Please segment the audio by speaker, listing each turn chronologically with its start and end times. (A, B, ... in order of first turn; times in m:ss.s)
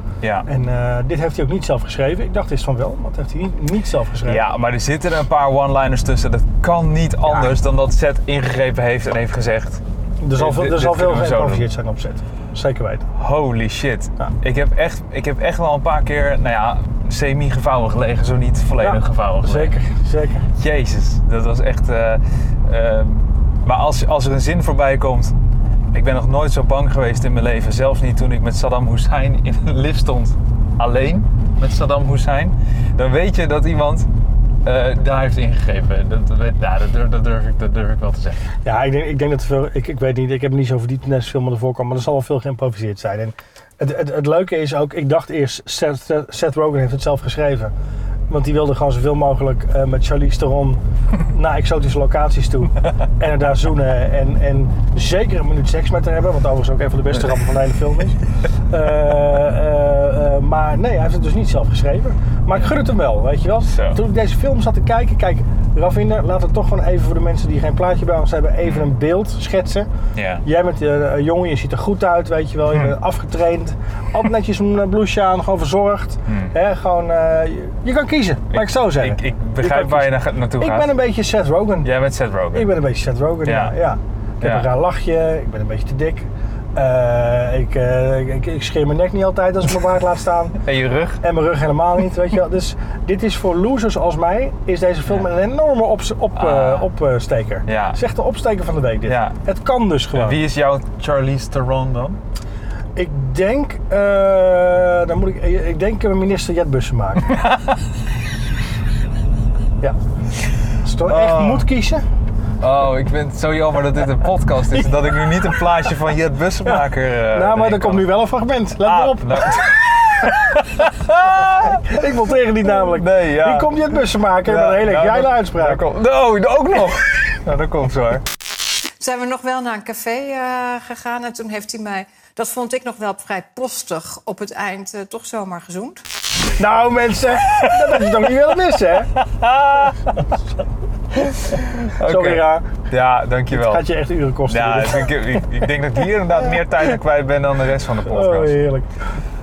0:00.2-0:00.5 A
0:00.4-0:04.4 B
0:04.2-0:09.8 A
0:10.2-0:13.1 B
0:10.3-0:11.6 A
0:13.1-0:19.7 A
0:18.8-0:20.5 B
0:20.6-0:25.3 A
0:25.9-0:34.1 A
0:34.6-0:38.4 A
0:38.6-0:47.7 B
0:48.3-1:09.9 B
1:03.7-1:04.0 A
1:10.1-1:10.4 A
1:10.4-1:21.9 B
1:16.3-1:16.5 A
1:18.5-1:20.9 A
1:21.8-1:22.7 A
1:22.5-1:30.6 B
1:23.4-1:23.7 A
1:24.4-1:24.7 A
1:30.6-1:31.2 A
1:31.2-1:40.4 B
1:36.3-1:36.9 A
1:37.7-1:38.0 A
1:39.1-1:39.4 A
1:40.1-1:42.2 A
1:43.0-1:47.4 B
1:47.3-1:47.8 A
1:50.8-1:52.0 B
1:51.0-1:51.7 A
1:52.6-1:58.1 A
1:56.6-2:00.4 B
1:58.8-2:02.1 A
2:01.4-2:05.8 B
2:02.6-2:08.2 A
2:09.0-2:16.0 C
2:16.6-2:19.1 B
2:17.5-2:18.2 A
2:19.1-2:20.1 A
2:21.2-2:22.7 B
2:21.2-2:23.9 A
2:23.5-2:25.2 B
2:24.5-2:28.6 A
2:28.0-2:29.0 B